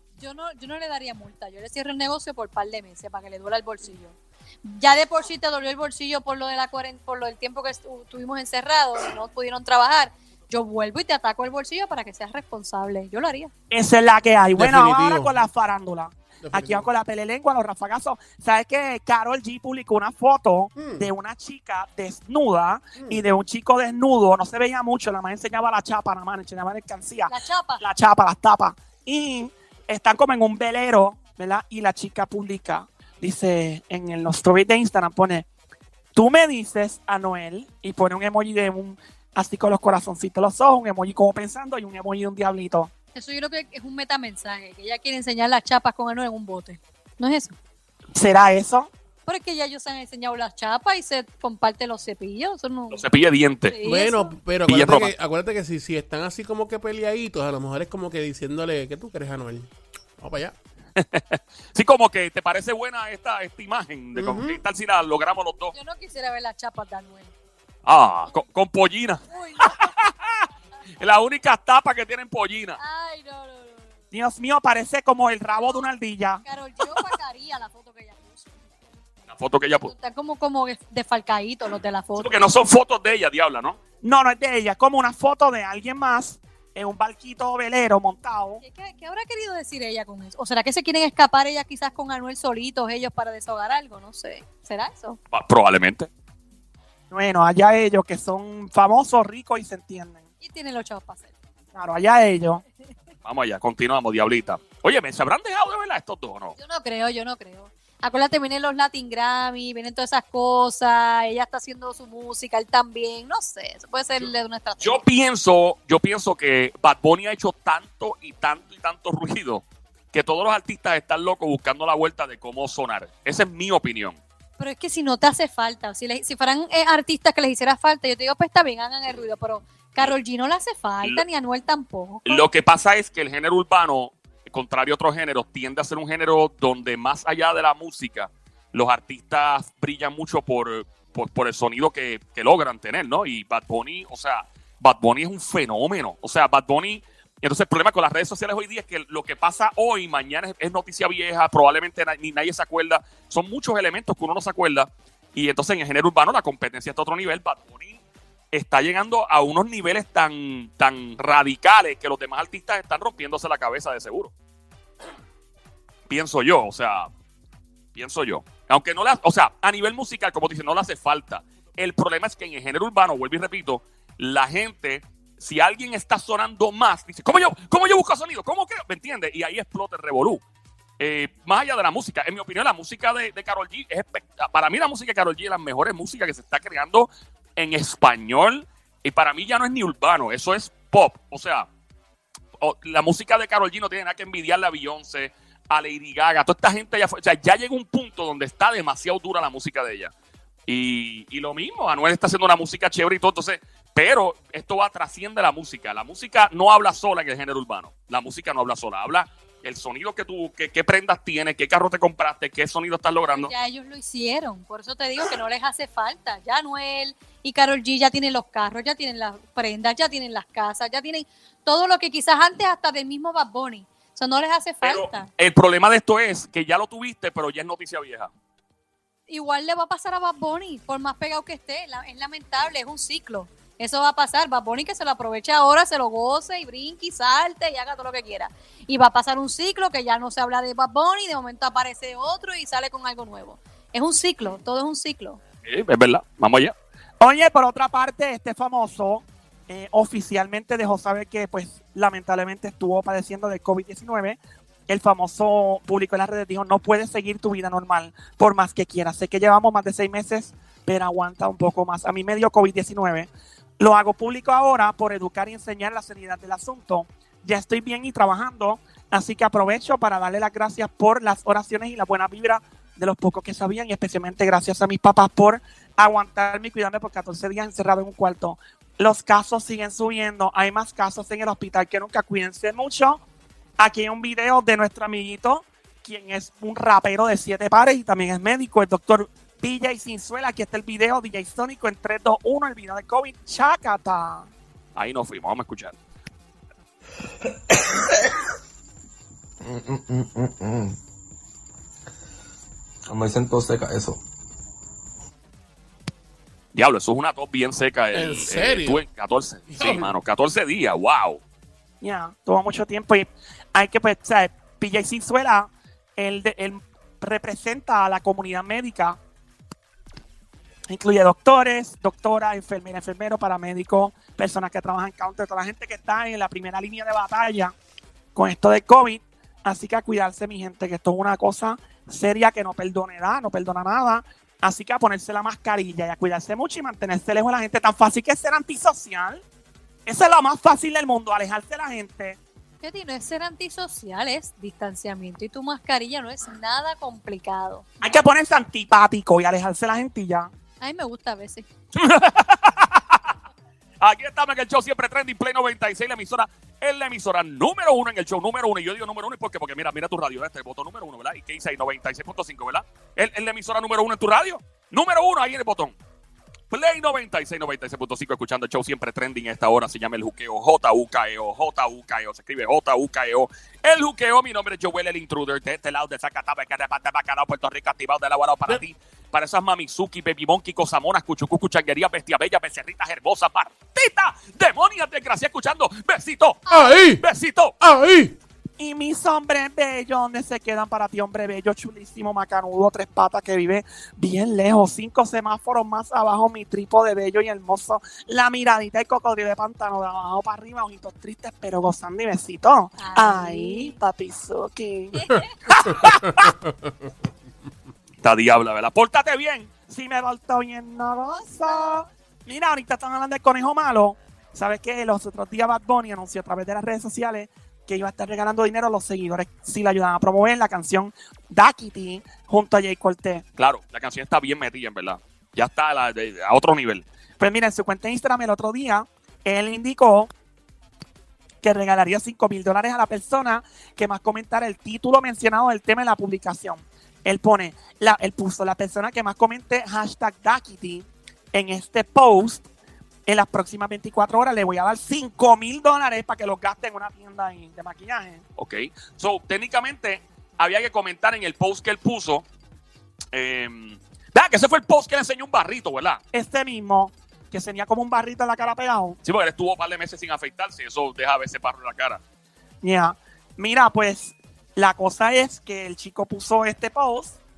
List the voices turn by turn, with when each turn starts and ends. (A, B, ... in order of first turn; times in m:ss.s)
0:00.2-0:13.5 A
0:13.7-0:35.4 B
0:14.6-0:15.3 C
0:16.4-0:16.9 C
0:20.8-0:21.1 C
0:23.0-0:23.2 C
0:27.3-0:27.8 A
0:36.1-0:42.9 B
0:43.1-0:47.6 A
0:48.1-0:48.9 B
0:49.2-0:53.0 A
0:52.9-0:53.8 D
0:53.7-0:54.4 A
0:53.8-1:00.5 C
0:54.7-0:55.1 D
1:01.0-1:05.7 D
1:04.2-1:04.6 C
1:05.7-1:07.3 A
1:07.9-1:09.8 D
1:09.3-1:10.0 A
1:11.0-1:12.8 D
1:12.8-1:13.9 A
1:14.1-1:16.4 B
1:16.4-1:18.7 A
1:19.3-1:19.9 D
1:19.8-1:22.4 A
1:22.2-1:23.8 D
1:24.0-1:28.6 B
1:28.6-1:35.2 A
1:35.3-1:36.1 D
1:37.1-1:40.2 B
1:40.4-1:41.3 A
1:41.8-1:42.6 B
1:43.2-1:46.5 D
1:46.6-1:55.0 A
1:54.2-2:04.2 D
2:04.6-2:12.4 A
2:12.2-2:38.0 D
2:38.5-2:44.3 D
2:46.1-2:47.1 D
2:47.9-3:00.4 D
3:01.0-3:11.7 D
3:12.6-3:20.1 D
3:20.7-3:33.5 D
3:33.3-3:45.3 A
3:44.8-3:48.3 D
3:49.3-4:05.4 A
4:05.6-4:06.7 D
4:07.2-4:43.2 B
4:43.8-4:54.5 B
4:55.0-4:55.9 D
4:59.6-5:01.0 E
5:03.1-5:04.2 E
5:06.7-5:11.4 D
5:08.1-5:09.0 C
5:09.7-5:10.1 C
5:12.0-5:19.2 B
5:20.9-5:27.7 B
5:28.4-5:39.4 B
5:40.1-5:42.4 B
5:42.8-5:47.9 A
5:48.0-5:50.5 B
5:50.8-5:51.6 A
5:51.9-5:53.2 D
5:54.0-6:05.9 D
6:06.7-6:26.6 D
6:26.7-6:26.9 A
6:26.7-6:27.2 C
6:27.2-6:27.7 D
6:27.8-6:28.4 C
6:28.8-6:45.1 B
6:43.0-6:44.0 A
6:45.1-6:45.7 A
6:45.9-6:46.2 B
6:46.3-6:46.9 C
6:48.2-6:49.7 D
6:49.8-7:03.4 B
7:03.6-7:07.0 D
7:07.4-7:10.3 B
7:11.6-7:22.6 B
7:23.3-7:28.4 B
7:28.6-7:32.4 D
7:33.3-7:36.2 D
7:36.3-7:39.2 B
7:39.2-7:42.2 D
7:42.8-7:47.4 B